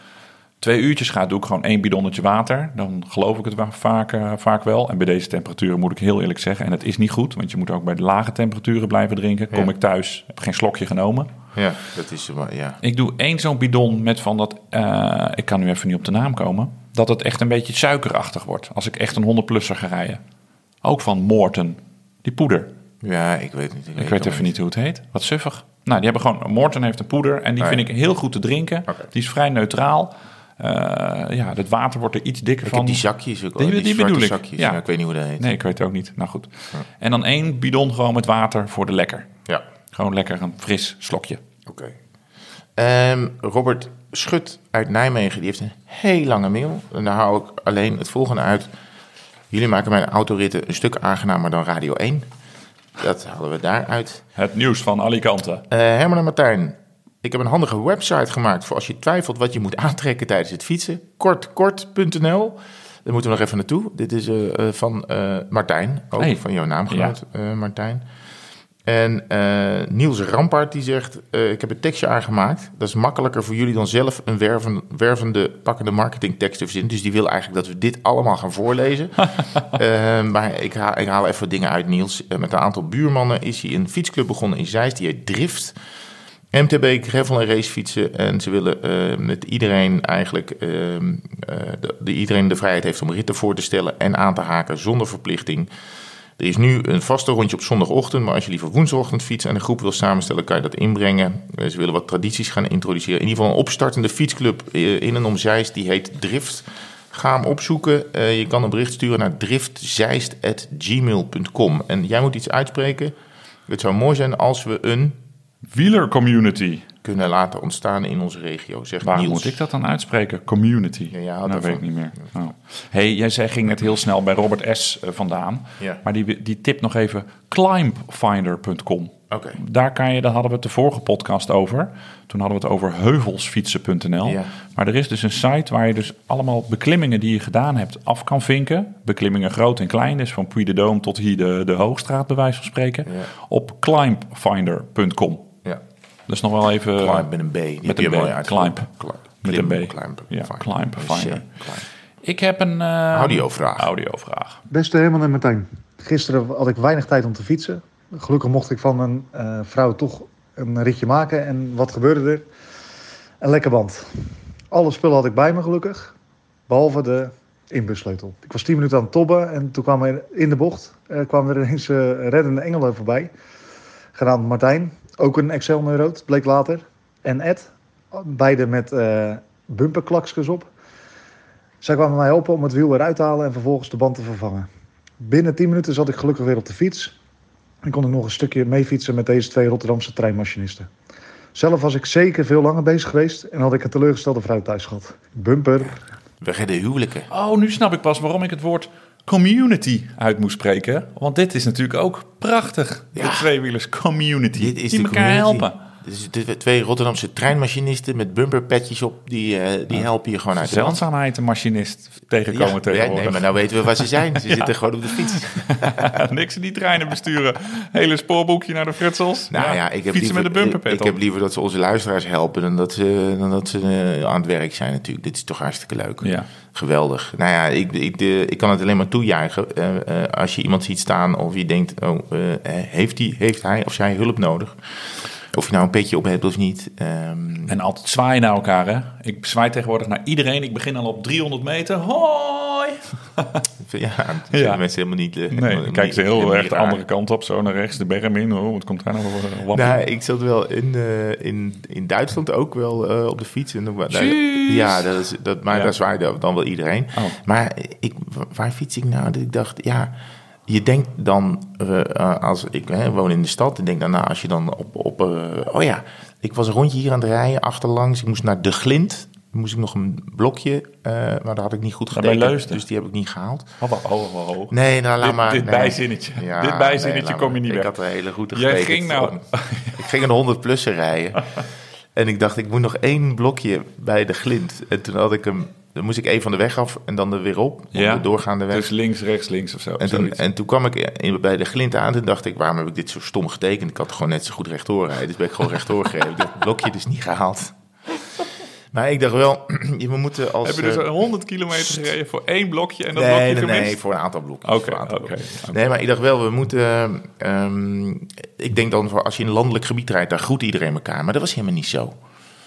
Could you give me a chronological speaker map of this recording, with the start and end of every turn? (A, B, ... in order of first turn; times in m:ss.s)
0:00.6-0:11.3 A
0:11.6-0:12.8 B
0:12.8-0:20.2 A
0:20.8-0:22.7 A
0:23.0-0:24.5 B
0:24.0-0:33.0 A
0:32.6-0:35.5 B
0:33.6-0:34.8 A
0:35.4-0:39.3 A
0:39.9-0:41.4 A
0:41.7-0:42.0 B
0:42.8-0:48.7 B
0:49.5-0:52.3 B
0:53.0-0:54.2 B
0:54.4-0:55.6 A
0:55.7-1:08.0 B
1:06.2-1:07.1 A
1:08.9-1:25.7 B
1:26.5-1:35.7 B
1:36.4-1:53.1 B
1:53.7-1:55.2 B
1:55.7-1:56.9 A
1:57.0-1:59.6 B
1:59.0-2:25.5 A
2:01.1-2:02.2 B
2:09.3-2:09.6 B
2:14.2-2:14.5 B
2:26.3-2:27.3 A
2:27.0-2:31.8 B
2:27.8-2:28.9 A
2:29.4-2:31.5 A
2:32.2-2:34.6 A
2:33.1-2:33.9 B
2:34.7-2:42.5 C
2:43.4-2:44.0 C
2:44.7-2:46.1 C
2:46.7-2:53.3 C
2:54.1-3:00.7 C
3:01.8-3:04.7 C
3:05.2-3:07.1 C
3:07.8-3:10.9 C
3:11.6-3:16.0 C
3:16.4-3:17.3 B
3:17.3-3:25.8 A
3:23.1-3:23.5 B
3:24.6-3:31.0 B
3:30.6-3:33.4 A
3:32.5-3:36.1 B
3:34.4-3:34.7 A
3:35.3-3:41.2 A
3:39.5-3:54.8 B
3:46.2-3:46.5 A
3:55.5-3:57.8 B
3:57.7-4:03.6 A
4:03.8-4:07.0 B
4:04.5-4:04.8 A
4:05.5-4:10.0 A
4:09.7-4:20.1 B
4:14.1-4:15.0 A
4:20.7-4:33.7 B
4:32.1-4:32.8 A
4:33.8-4:37.9 A
4:34.7-4:41.5 B
4:38.5-4:40.0 A
4:42.1-4:48.9 B
4:47.9-4:50.4 A
4:50.0-4:57.7 B
4:58.9-5:01.1 B
5:00.6-5:04.0 A
5:01.8-5:02.0 B
5:03.1-5:12.2 B
5:04.6-5:05.8 A